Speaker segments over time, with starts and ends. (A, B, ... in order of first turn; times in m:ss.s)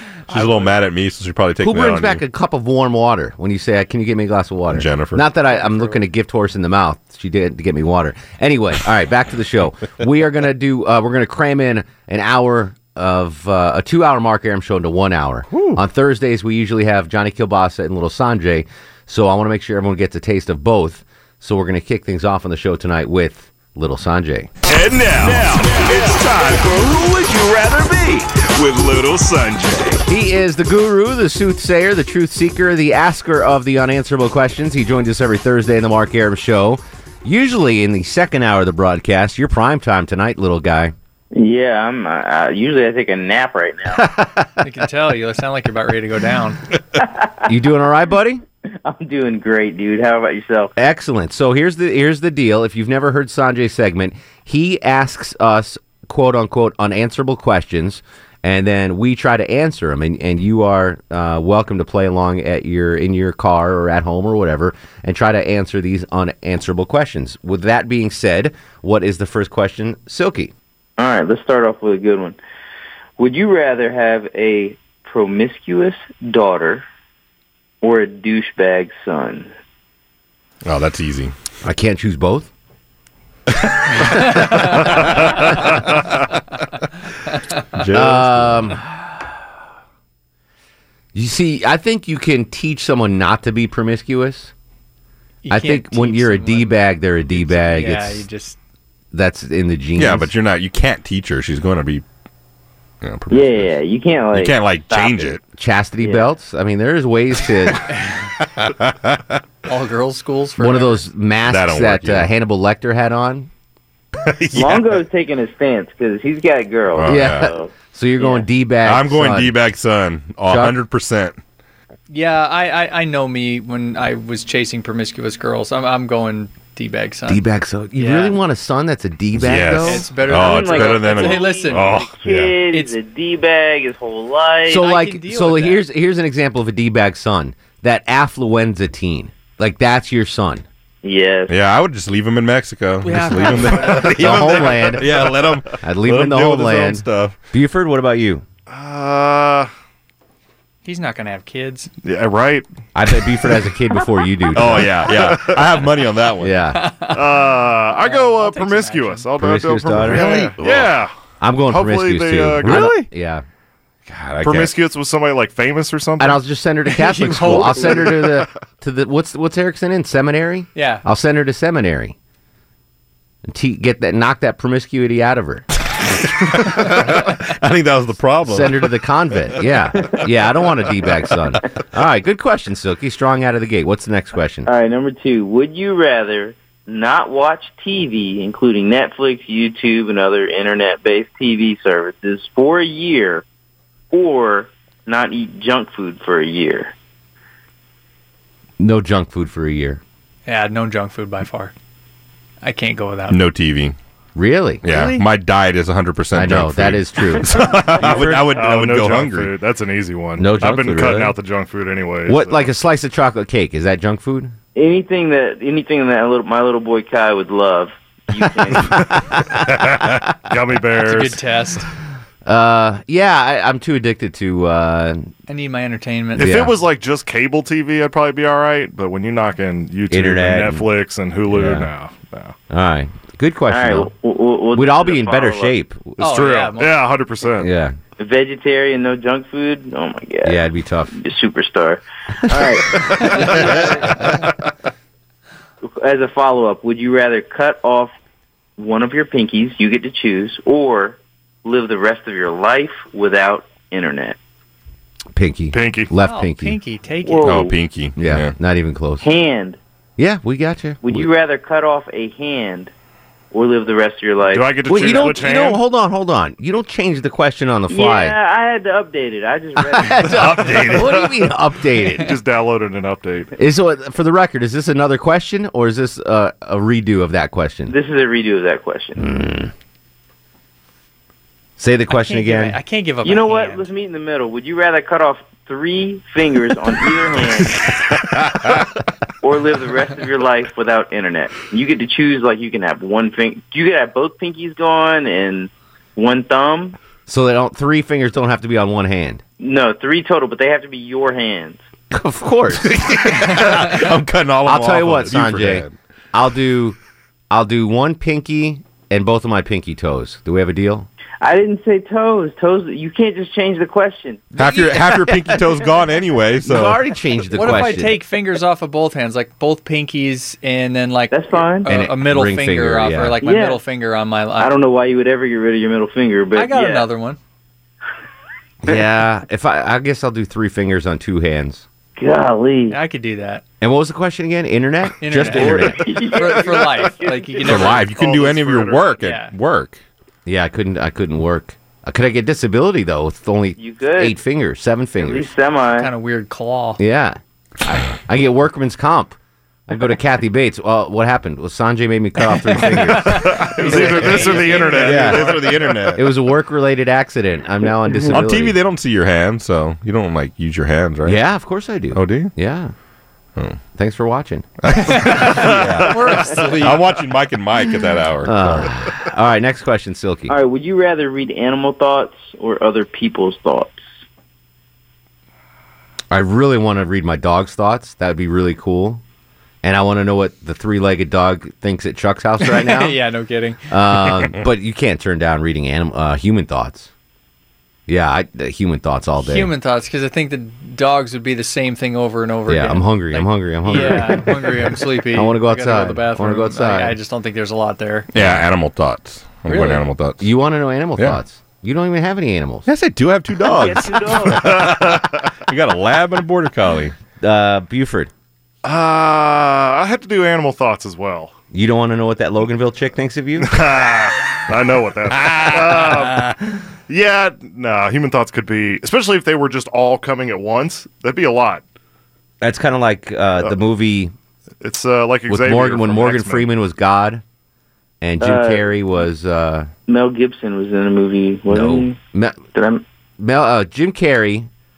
0:00.3-0:02.2 A
0:00.3-0:00.7 B
0:01.6-0:24.5 C
0:04.7-0:05.2 A
0:05.5-0:06.0 B
0:15.5-0:15.8 A
0:24.7-0:29.8 D
0:30.1-0:40.9 C
0:41.3-0:44.1 E
0:44.0-0:44.5 C
0:44.6-0:46.6 B
0:47.5-0:48.4 C
0:48.8-0:50.7 E
0:50.8-1:10.5 C
1:11.0-1:12.4 E
1:13.2-1:16.8 E
1:17.8-1:19.5 E
1:20.6-1:21.3 A
1:21.6-1:22.5 C
1:23.9-1:25.4 A
1:24.0-1:25.6 B
1:27.3-1:27.8 B
1:27.7-1:28.7 A
1:27.9-1:28.8 C
1:31.1-1:34.5 C
1:35.4-1:36.8 B
1:35.5-1:38.3 C
1:37.4-1:38.6 B
1:39.1-1:40.3 C
1:40.0-1:42.0 A
1:43.0-1:43.7 A
1:43.3-1:45.3 E
1:44.3-1:45.4 A
1:45.6-1:47.8 C
1:46.0-1:46.3 E
1:48.7-1:49.3 A
1:49.7-1:51.0 B
1:50.6-1:53.5 C
1:51.5-1:52.3 A
1:54.2-1:54.9 A
1:54.5-1:58.4 E
1:57.0-1:57.5 A
1:57.1-1:59.6 C
1:58.8-2:01.4 A
2:00.5-2:00.8 C
2:02.1-2:07.4 B
2:07.3-2:10.1 C
2:08.0-2:08.4 B
2:09.4-2:12.5 A
2:09.7-2:11.9 B
2:10.3-2:14.8 E
2:14.7-2:20.6 C
2:14.8-2:15.8 B
2:21.0-2:21.5 E
2:21.5-2:27.4 A
2:23.0-2:24.7 B
2:23.9-2:28.4 C
2:28.7-2:29.7 F
2:30.8-2:31.9 B
2:32.0-2:32.7 F
2:33.0-2:35.2 C
2:34.5-2:36.6 A
2:35.1-2:35.7 F
2:36.4-2:36.9 C
2:36.7-2:39.3 B
2:37.1-2:41.1 F
2:39.4-2:40.6 C
2:40.0-2:41.0 A
2:41.4-2:43.4 C
2:41.7-2:43.0 F
2:42.6-2:43.1 A
2:44.1-2:44.7 A
2:44.4-2:46.4 F
2:46.2-2:52.2 C
2:46.9-2:48.2 B
2:50.8-2:51.0 B
2:53.4-2:55.7 C
2:56.2-2:58.9 A
2:58.5-3:04.7 C
3:04.7-3:13.4 E
3:14.1-3:16.9 E
3:18.8-3:20.0 C
3:20.5-3:21.7 B
3:22.6-3:23.4 B
3:23.3-3:24.0 A
3:24.4-3:24.8 C
3:24.8-3:29.6 A
3:24.9-3:25.3 B
3:26.3-3:28.6 C
3:28.1-3:32.6 F
3:30.4-3:31.4 C
3:30.6-3:31.2 A
3:32.3-3:34.6 C
3:34.8-3:39.2 E
3:39.9-3:41.4 F
3:41.0-3:41.9 B
3:42.4-3:45.3 C
3:45.5-3:46.5 B
3:46.4-3:52.6 F
3:46.4-3:46.8 C
3:50.1-3:50.9 C
3:51.5-3:51.9 C
3:52.7-3:54.1 C
3:53.7-3:55.8 E
3:54.7-3:56.2 C
3:56.2-3:57.0 B
3:56.2-3:57.7 F
3:57.6-3:58.0 C
3:58.2-4:04.2 E
4:00.4-4:01.1 C
4:02.5-4:02.8 C
4:03.2-4:03.8 B
4:05.8-4:08.1 E
4:08.8-4:14.4 E
4:15.3-4:16.8 C
4:15.7-4:16.1 F
4:16.2-4:17.6 B
4:17.2-4:17.7 E
4:17.4-4:18.5 A
4:18.2-4:19.3 C
4:19.2-4:19.8 E
4:20.2-4:21.0 C
4:21.0-4:22.9 E
4:23.5-4:25.4 E
4:24.5-4:25.8 F
4:24.9-4:28.4 C
4:27.9-4:31.0 E
4:29.8-4:32.3 C
4:30.3-4:31.5 F
4:32.1-4:33.5 F
4:33.6-4:38.0 C
4:37.9-4:39.4 E
4:39.2-4:39.7 C
4:41.8-4:42.8 C
4:42.1-4:43.9 B
4:43.2-4:48.0 E
4:49.4-4:57.0 E
4:57.3-4:59.4 C
4:59.6-5:01.8 E
5:02.1-5:03.0 C
5:02.8-5:06.0 A
5:03.4-5:04.1 B
5:03.6-5:04.0 C
5:04.6-5:07.0 C
5:07.5-5:11.1 C
5:11.4-5:14.5 E
5:14.6-5:17.0 A
5:14.6-5:15.6 C
5:16.6-5:18.2 C
5:17.5-5:24.7 B
5:21.3-5:21.9 E
5:21.9-5:23.4 C
5:23.4-5:23.8 E
5:24.6-5:27.1 E
5:26.6-5:27.4 B
5:28.8-5:31.8 C
5:32.2-5:33.0 E
5:32.9-5:33.6 B
5:33.8-5:36.0 C
5:35.2-5:38.0 B
5:35.4-5:37.3 E
5:37.6-5:40.0 A
5:37.6-5:39.2 F
5:39.2-5:39.5 B
5:40.5-5:45.5 C
5:43.8-5:44.4 E
5:45.2-5:46.1 E
5:46.0-5:47.0 B
5:47.0-5:49.4 C
5:49.9-5:54.6 C
5:52.6-5:55.6 B
5:53.3-5:56.1 F
5:54.7-5:56.3 A
5:55.1-5:55.5 C
5:56.1-5:58.8 C
5:58.1-5:58.4 E
5:58.3-6:01.4 A
6:01.2-6:02.9 C
6:02.1-6:02.5 A
6:04.0-6:04.7 C
6:04.8-6:08.9 A
6:04.9-6:07.0 B
6:05.4-6:06.9 F
6:08.4-6:10.5 C
6:10.5-6:14.0 E
6:16.3-6:19.2 C
6:19.8-6:23.2 C
6:22.6-6:23.8 B
6:23.9-6:27.1 C
6:28.1-6:29.7 C
6:29.4-6:38.3 B
6:32.7-6:37.2 C
6:38.3-6:40.4 A
6:38.4-6:38.6 C
6:39.7-6:40.1 B
6:40.4-6:42.9 C
6:42.9-6:47.2 A
6:43.6-6:44.8 E
6:44.5-6:45.4 F
6:47.4-6:48.3 C
6:48.8-6:51.5 F
6:51.7-6:53.8 C
6:53.6-6:56.5 F
6:55.4-6:56.5 A
6:57.1-7:01.8 F
7:02.6-7:04.3 C
7:04.8-7:06.7 F
7:05.5-7:07.4 C
7:08.2-7:09.9 C
7:08.4-7:08.9 E
7:10.1-7:12.2 E
7:11.7-7:12.6 C
7:12.8-7:13.0 E
7:13.4-7:14.7 C